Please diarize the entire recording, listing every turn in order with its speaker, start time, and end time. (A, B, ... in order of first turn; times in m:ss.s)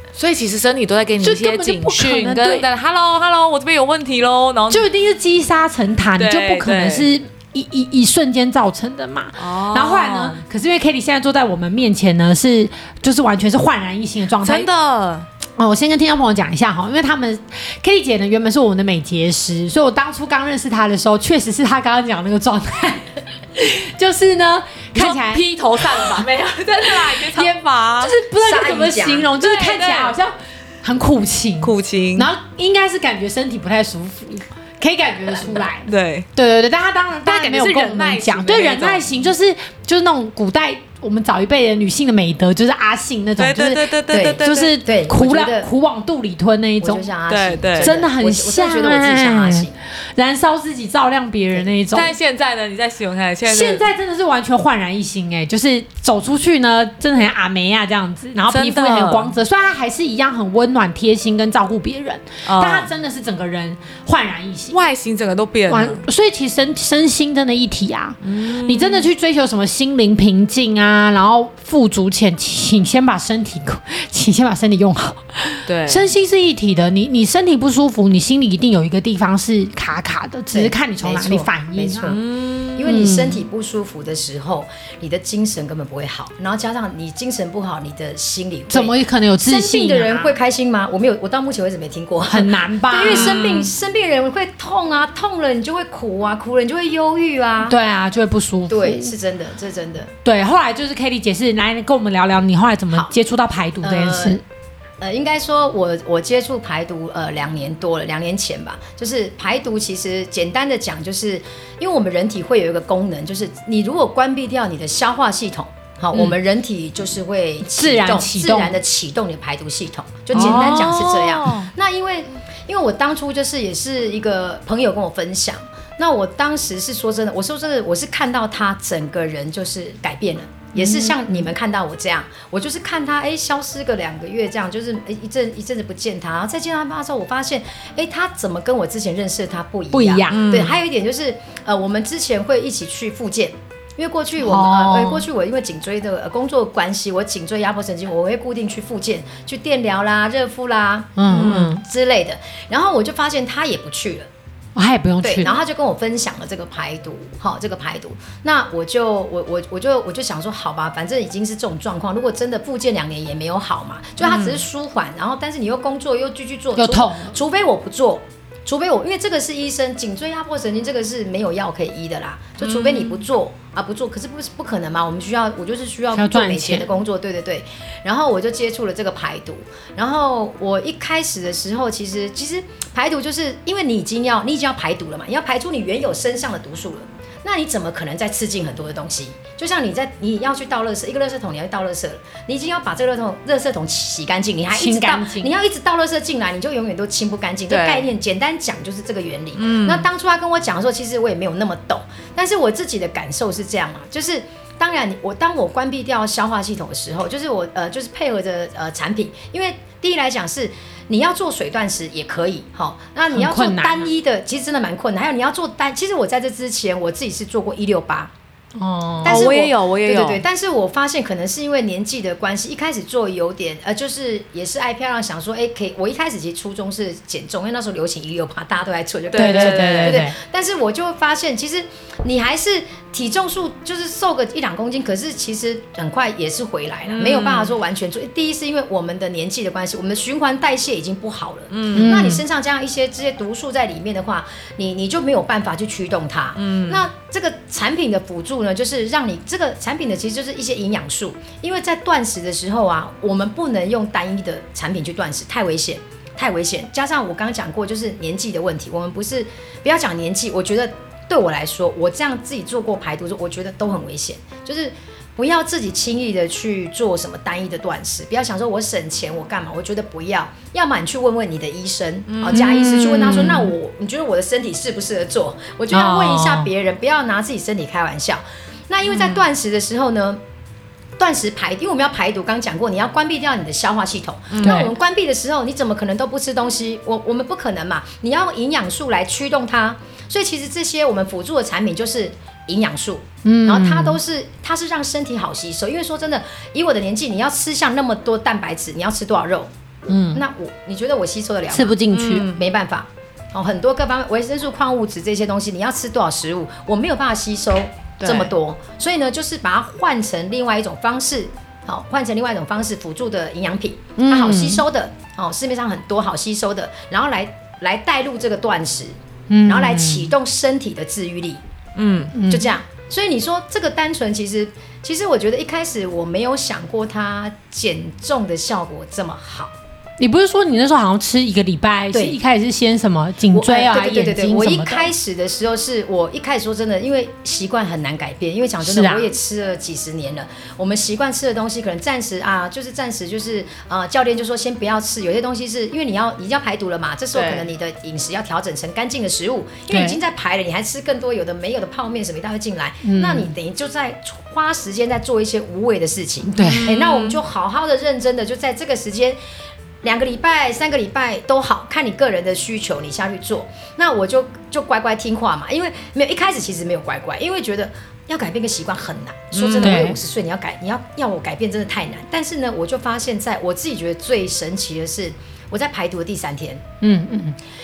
0:00.1-0:04.8 A
0:01.2-0:02.7 B
0:04.7-0:14.7 B
0:06.2-0:07.1 A
0:09.4-0:10.4 A
0:14.4-0:15.3 A
0:15.6-0:25.4 B
0:24.9-0:28.1 A
0:27.2-0:47.1 B
0:28.4-0:29.3 C
0:29.4-0:30.2 A
0:31.6-0:32.3 A
0:35.3-0:36.3 A
0:37.2-0:39.3 A
0:43.4-0:44.7 A
0:44.1-0:45.7 C
0:46.8-0:49.7 C
0:47.3-0:48.0 A
0:47.8-0:52.1 B
0:51.9-0:53.8 A
0:53.4-1:04.8 B
0:58.5-0:59.3 A
1:02.4-1:02.9 A
1:04.7-1:06.0 A
1:05.7-1:22.2 B
1:08.2-1:09.1 A
1:15.7-1:16.1 A
1:20.5-1:22.2 C
1:22.1-1:22.8 A
1:22.7-1:37.8 C
1:22.8-1:23.4 B
1:28.7-1:30.3 B
1:32.3-1:33.4 B
1:33.0-1:33.7 A
1:37.6-1:39.1 B
1:38.7-1:40.1 C
1:40.2-1:44.4 B
1:43.8-1:44.4 C
1:45.0-2:34.3 C
1:57.7-1:58.8 B
2:00.3-2:01.7 A
2:00.3-2:00.8 B
2:10.8-2:11.4 B
2:19.9-2:20.5 B
2:20.3-2:20.8 A
2:24.4-2:25.2 B
2:31.2-2:31.8 B
2:31.3-2:31.8 A
2:34.8-2:35.5 B
2:35.2-3:38.3 C
2:44.2-2:44.6 A
2:46.8-2:47.4 B
2:52.6-2:53.2 A
2:56.1-2:56.9 B
3:14.7-3:15.5 B
3:17.7-3:18.1 A
3:19.5-3:20.1 A
3:33.3-3:34.1 B
3:38.8-3:39.4 B
3:39.2-4:40.4 C
3:39.2-3:40.4 A
3:49.3-3:50.2 A
3:49.4-3:50.4 B
3:57.0-3:57.7 A
4:01.7-4:02.2 A
4:01.9-4:02.4 B
4:06.6-4:07.1 A
4:32.3-4:33.0 A
4:32.5-4:33.7 B
4:35.9-4:36.7 B
4:39.0-4:39.4 A
4:41.2-4:59.7 C
4:44.5-4:44.9 A
4:44.6-4:44.9 B
4:53.4-4:54.2 B
5:00.1-5:00.4 B
5:00.3-5:19.1 C
5:01.7-5:02.5 B
5:02.1-5:02.6 A
5:08.2-5:08.5 A
5:14.2-5:14.8 B
5:19.5-5:20.3 B
5:19.7-5:21.6 C
5:22.0-5:22.3 A
5:22.3-5:22.7 B
5:22.5-5:29.7 C
5:30.2-5:35.1 B
5:32.1-5:32.4 C
5:33.5-5:59.4 C
5:38.8-5:39.3 B
5:47.3-5:47.7 A
5:49.9-5:50.2 B
5:53.0-5:53.5 B
5:56.5-5:56.8 B
5:56.6-5:57.4 A
6:00.0-6:16.8 C
6:09.5-6:10.0 A
6:09.8-6:10.2 B
6:17.0-6:17.6 B